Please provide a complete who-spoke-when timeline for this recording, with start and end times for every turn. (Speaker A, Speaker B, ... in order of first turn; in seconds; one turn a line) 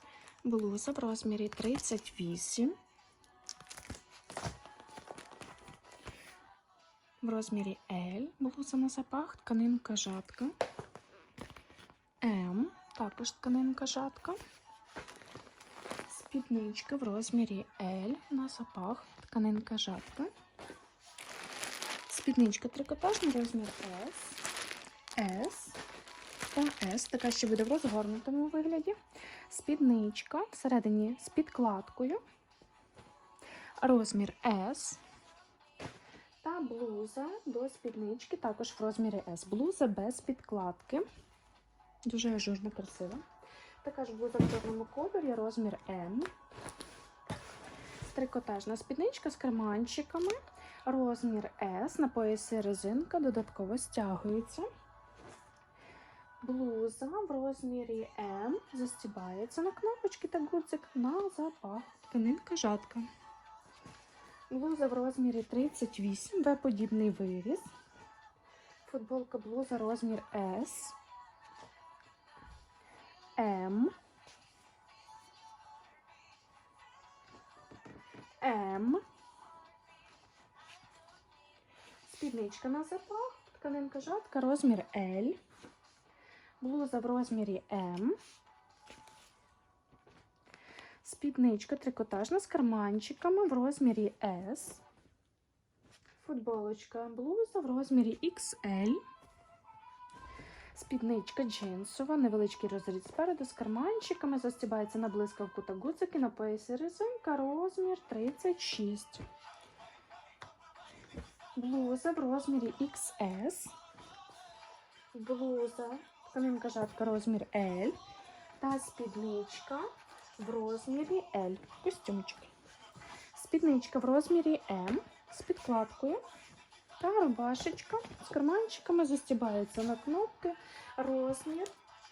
Speaker A: 0.5-2.8
Speaker A: 7.2-10.5
Speaker A: 12.2-14.4
Speaker A: 16.1-20.3
Speaker A: 22.1-24.4
Speaker A: 25.2-25.8
Speaker A: 26.5-29.0
Speaker A: 29.5-32.2
Speaker A: 33.8-35.0
Speaker A: 36.4-41.0
Speaker A: 42.1-43.2
Speaker A: 43.8-46.3
Speaker A: 48.1-54.7
Speaker A: 56.4-63.1
Speaker A: 64.5-67.7
Speaker A: 68.8-71.0
Speaker A: 73.4-73.9
Speaker A: 78.4-79.0
Speaker A: 82.0-85.4
Speaker A: 86.6-88.2
Speaker A: 91.0-94.8
Speaker A: 96.2-99.0
Speaker A: 100.7-109.2
Speaker A: 111.6-113.7
Speaker A: 115.1-118.0
Speaker A: 118.6-119.8
Speaker A: 120.4-122.5
Speaker A: 123.3-126.2
Speaker A: 127.0-131.7